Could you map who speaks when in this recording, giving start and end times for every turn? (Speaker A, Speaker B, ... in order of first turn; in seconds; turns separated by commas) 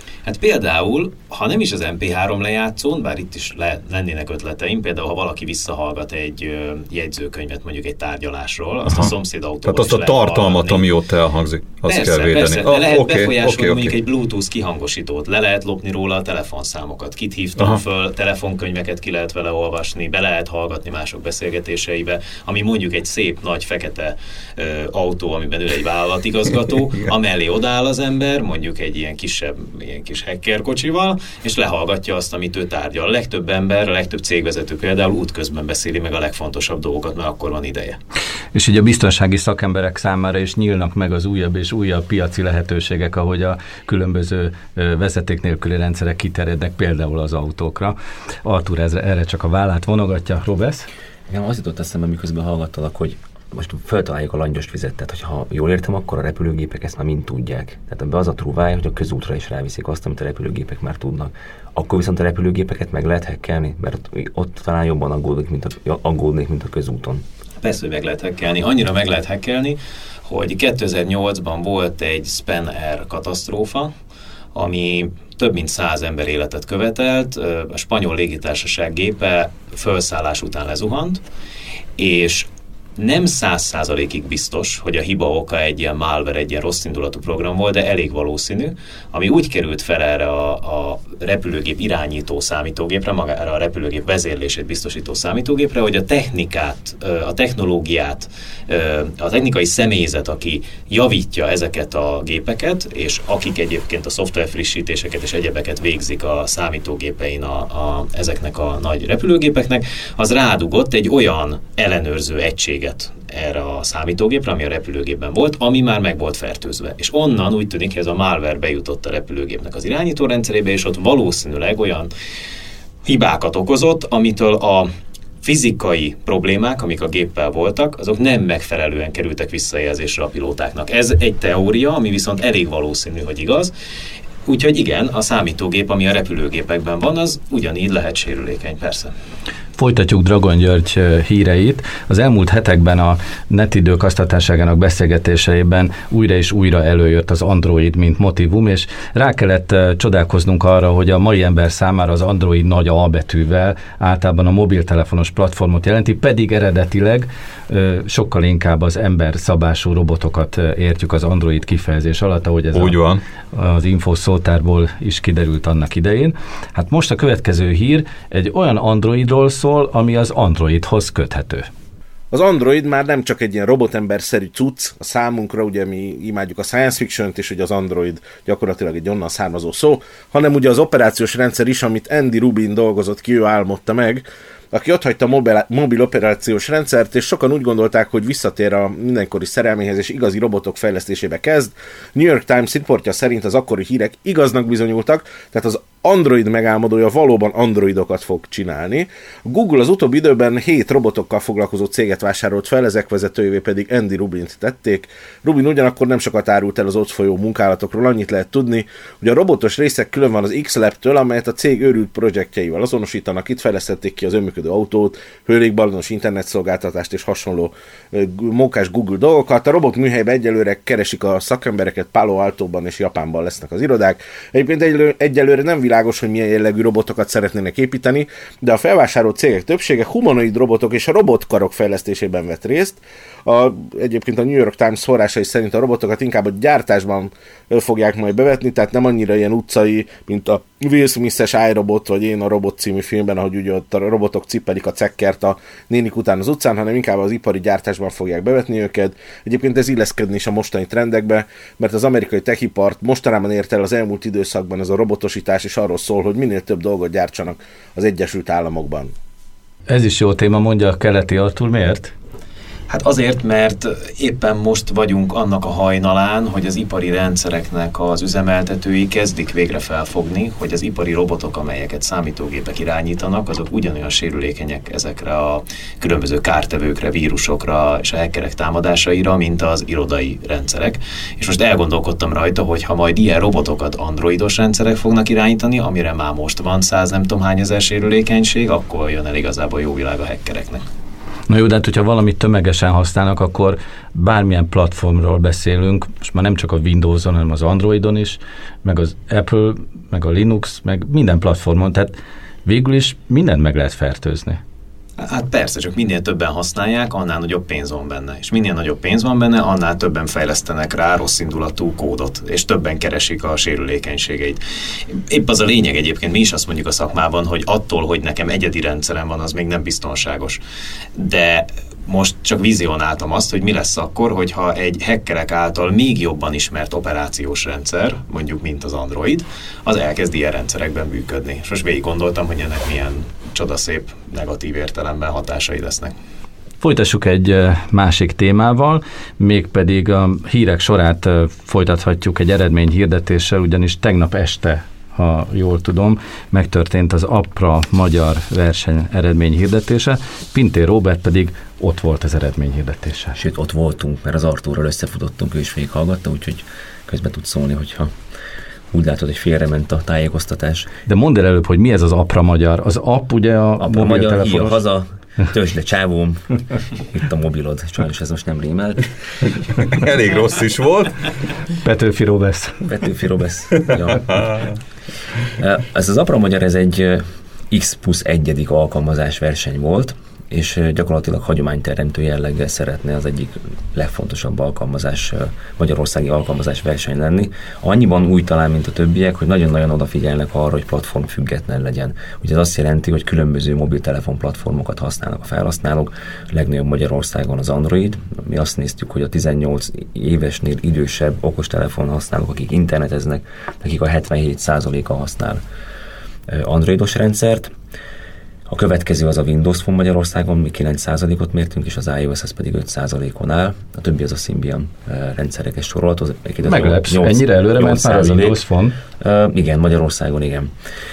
Speaker A: 0.2-10.8, Speaker B: 8.9-9.1, Speaker B: 9.7-13.9, Speaker A: 11.8-38.0, Speaker C: 38.5-50.9, Speaker D: 51.3-67.2, Speaker A: 67.6-73.9, Speaker A: 74.5-81.2, Speaker A: 82.0-122.1, Speaker A: 123.0-124.9, Speaker A: 125.4-133.7, Speaker A: 134.4-139.1, Speaker C: 139.8-163.0, Speaker B: 162.7-163.2, Speaker C: 163.5-171.7, Speaker E: 172.3-259.1, Speaker C: 259.9-262.1, Speaker A: 262.9-290.8, Speaker C: 291.5-304.6, Speaker A: 305.2-320.6, Speaker A: 321.1-336.1, Speaker C: 336.8-353.4, Speaker D: 353.4-358.1, Speaker D: 358.9-360.9, Speaker C: 361.1-364.8, Speaker D: 363.8-369.2, Speaker B: 369.9-371.3, Speaker C: 371.8-372.8, Speaker D: 372.8-374.4, Speaker B: 373.8-374.7, Speaker D: 375.6-405.6, Speaker D: 406.5-407.7, Speaker D: 408.7-418.6, Speaker C: 416.6-419.0, Speaker D: 419.2-420.7